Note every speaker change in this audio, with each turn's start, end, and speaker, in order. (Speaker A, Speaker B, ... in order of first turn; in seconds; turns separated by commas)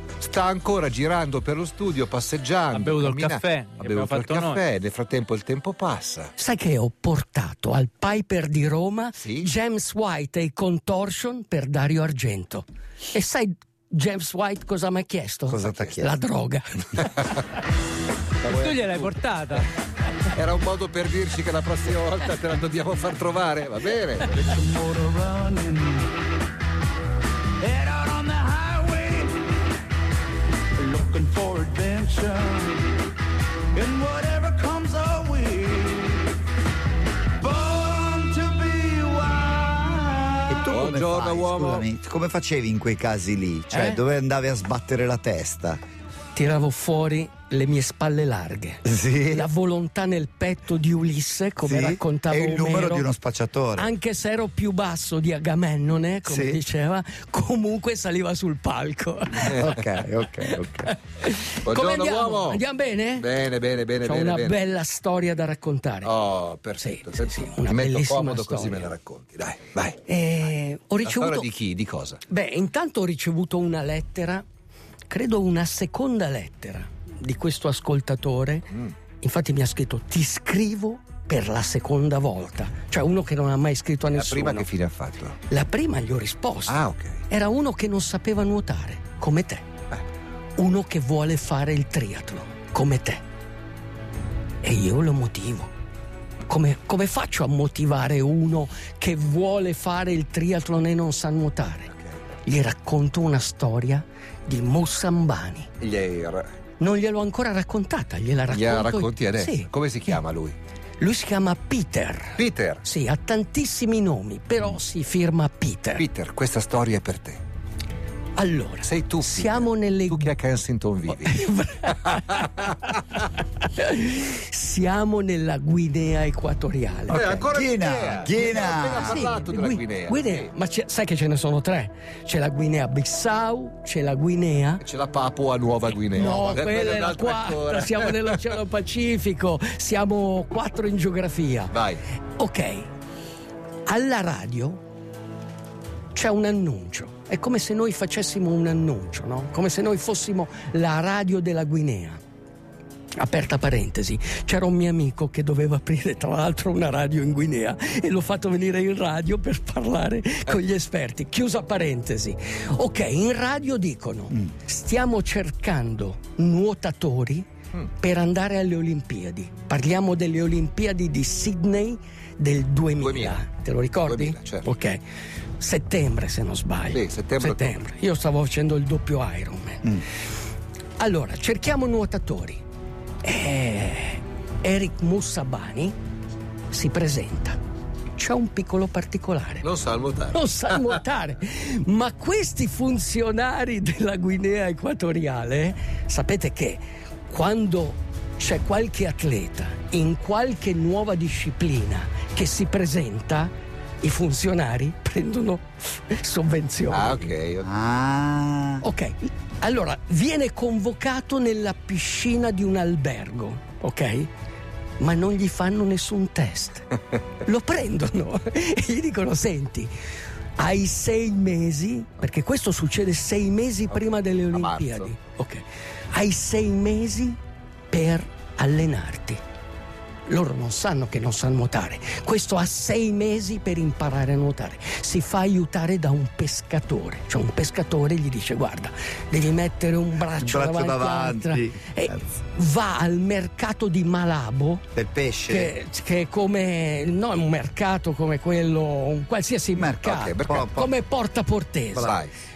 Speaker A: 0.2-6.3, Speaker B: 2.7-4.6, Speaker C: 6.4-17.3, Speaker A: 9.2-9.5, Speaker D: 15.5-16.1, Speaker A: 15.6-16.0, Speaker A: 18.4-19.2, Speaker B: 18.5-19.7, Speaker A: 20.4-24.5, Speaker E: 24.4-26.1, Speaker E: 27.6-29.4, Speaker E: 30.8-32.8, Speaker E: 33.7-36.3, Speaker E: 37.4-40.4, Speaker D: 40.5-45.8, Speaker A: 40.6-41.9, Speaker C: 46.4-53.1, Speaker D: 48.9-49.5, Speaker D: 51.6-53.9, Speaker C: 53.8-59.8, Speaker D: 56.2-56.6, Speaker D: 59.4-60.9, Speaker C: 60.6-63.3, Speaker A: 61.6-62.6, Speaker A: 63.2-64.6, Speaker C: 64.0-66.1, Speaker A: 66.0-70.0, Speaker C: 66.8-68.9, Speaker C: 70.0-71.5, Speaker A: 71.0-72.2, Speaker C: 72.3-74.4, Speaker C: 75.1-78.7, Speaker C: 79.2-84.7, Speaker A: 84.1-85.4, Speaker C: 85.5-89.7, Speaker A: 86.7-87.2, Speaker C: 90.6-93.2, Speaker C: 94.6-95.7, Speaker C: 96.5-101.9, Speaker C: 102.5-105.7, Speaker A: 105.8-106.5, Speaker C: 106.8-110.2, Speaker A: 108.5-110.6, Speaker C: 111.0-116.0, Speaker A: 112.4-112.8, Speaker A: 116.0-117.4, Speaker C: 118.4-120.3, Speaker A: 118.8-121.4, Speaker C: 121.2-127.5, Speaker A: 127.1-130.5, Speaker D: 127.1-129.3, Speaker C: 129.0-134.8, Speaker A: 134.8-138.4, Speaker C: 136.1-141.7, Speaker A: 141.7-142.0, Speaker C: 142.4-142.9, Speaker C: 143.9-144.8, Speaker C: 146.2-152.2, Speaker C: 153.2-175.0, Speaker A: 173.0-173.4, Speaker A: 174.1-174.7, Speaker C: 175.6-180.0, Speaker A: 176.9-177.8, Speaker C: 181.0-182.6, Speaker C: 183.2-185.9, Speaker C: 186.7-187.6, Speaker C: 188.2-189.7, Speaker A: 189.6-191.0, Speaker C: 190.3-207.3, Speaker A: 206.9-207.7, Speaker D: 207.6-208.8, Speaker C: 208.8-214.3, Speaker C: 215.0-216.9, Speaker C: 217.4-219.9, Speaker C: 220.6-227.4, Speaker A: 223.9-225.1, Speaker C: 227.9-229.4, Speaker C: 230.3-244.9, Speaker D: 240.3-242.3, Speaker D: 244.9-245.8, Speaker C: 245.5-252.2, Speaker D: 249.8-250.9, Speaker A: 250.0-250.7, Speaker A: 251.9-252.3